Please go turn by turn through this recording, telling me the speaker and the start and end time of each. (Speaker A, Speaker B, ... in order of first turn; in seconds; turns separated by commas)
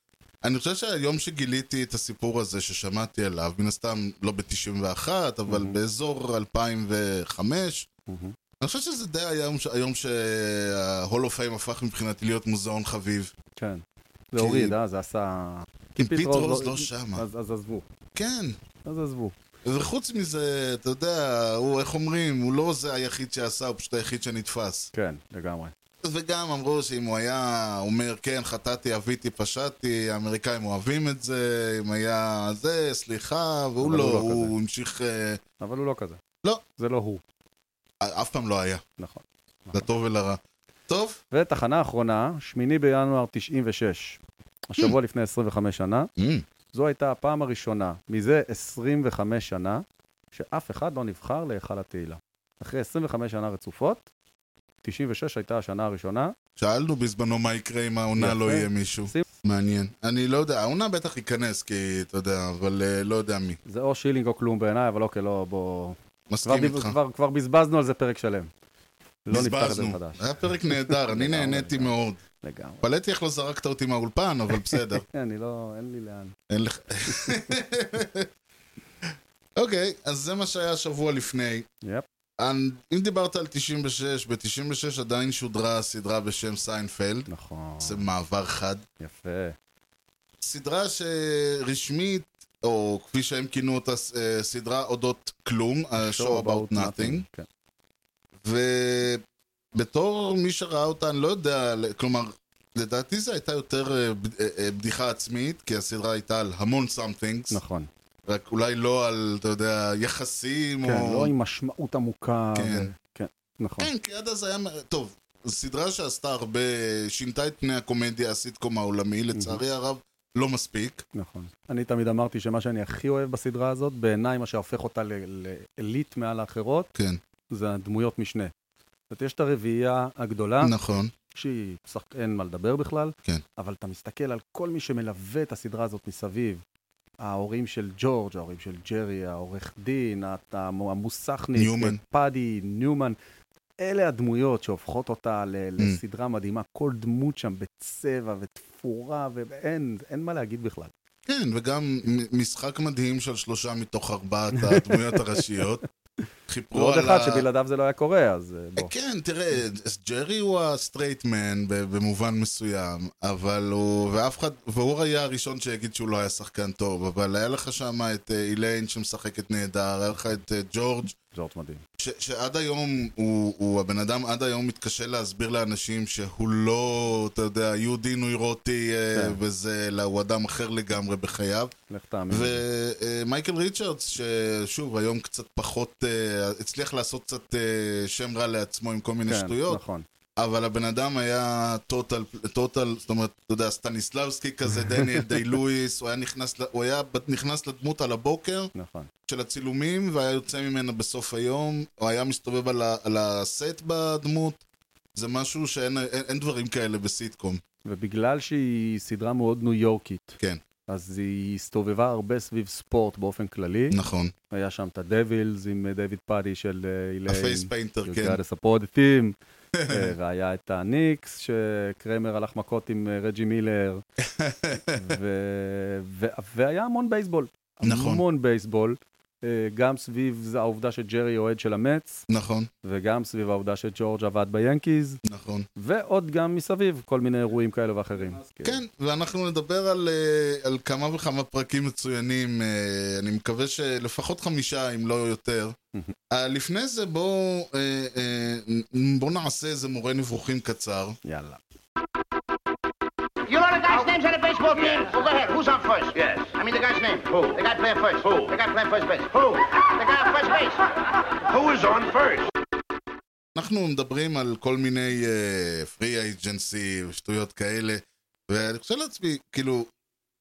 Speaker A: 0.4-7.9, Speaker B: 5.5-5.8, Speaker B: 8.1-8.3, Speaker A: 8.6-13.3, Speaker B: 13.6-17.9, Speaker A: 14.4-14.7, Speaker A: 16.0-17.2, Speaker A: 18.1-18.6, Speaker B: 18.9-19.3, Speaker A: 19.6-24.9, Speaker B: 24.9-25.7, Speaker A: 26.0-35.4, Speaker B: 33.8-34.5, Speaker B: 35.6-36.2, Speaker B: 36.8-37.2, Speaker A: 38.0-38.8, Speaker B: 39.0-39.9, Speaker A: 39.7-41.2, Speaker B: 41.3-46.1, Speaker A: 46.2-46.4, Speaker B: 46.7-54.0, Speaker B: 54.8-56.3, Speaker A: 56.6-63.6, Speaker B: 58.2-59.2, Speaker B: 63.6-68.5, Speaker A: 66.3-67.0, Speaker B: 69.2-72.8, Speaker A: 69.3-72.2, Speaker A: 72.8-75.0, Speaker B: 74.7-76.3, Speaker A: 76.5-78.3, Speaker A: 79.0-81.7, Speaker A: 82.4-87.3, Speaker B: 87.3-88.1, Speaker A: 87.8-88.8, Speaker B: 89.0-89.5, Speaker A: 90.4-97.2, Speaker B: 96.0-97.5, Speaker A: 98.4-99.2, Speaker A: 99.7-107.6, Speaker B: 107.5-107.9, Speaker A: 108.3-111.3, Speaker B: 110.8-113.9, Speaker A: 112.5-112.9, Speaker A: 113.8-121.0, Speaker B: 119.3-119.6, Speaker B: 121.1-126.9, Speaker A: 126.9-127.2, Speaker B: 127.5-128.5, Speaker B: 129.1-130.7, Speaker A: 130.6-131.1, Speaker B: 131.3-136.6, Speaker B: 137.2-143.2, Speaker A: 141.6-142.0, Speaker B: 143.8-150.9, Speaker A: 151.2-155.8, Speaker B: 154.6-155.4, Speaker A: 156.5-157.4, Speaker B: 156.7-158.9, Speaker A: 158.8-171.1, Speaker B: 171.3-171.8, Speaker A: 172.0-181.7, Speaker B: 181.9-182.6, Speaker A: 182.3-189.8, Speaker B: 189.3-190.0, Speaker A: 190.4-198.7, Speaker B: 194.9-195.2, Speaker B: 198.7-199.1, Speaker A: 199.3-204.6, Speaker A: 205.1-207.6, Speaker B: 207.8-210.4, Speaker B: 210.9-214.0, Speaker A: 213.9-214.3, Speaker B: 214.5-219.3, Speaker A: 217.3-218.4, Speaker A: 219.7-220.1, Speaker B: 219.9-224.0, Speaker A: 224.2-225.2, Speaker B: 224.9-232.2, Speaker A: 227.8-228.2, Speaker A: 232.3-232.7, Speaker B: 232.8-235.2, Speaker A: 235.2-235.7, Speaker B: 235.8-238.8, Speaker A: 238.6-245.8, Speaker A: 246.3-251.2, Speaker B: 251.2-251.6, Speaker C: 253.4-260.9, Speaker C: 261.5-262.5, Speaker A: 263.5-269.9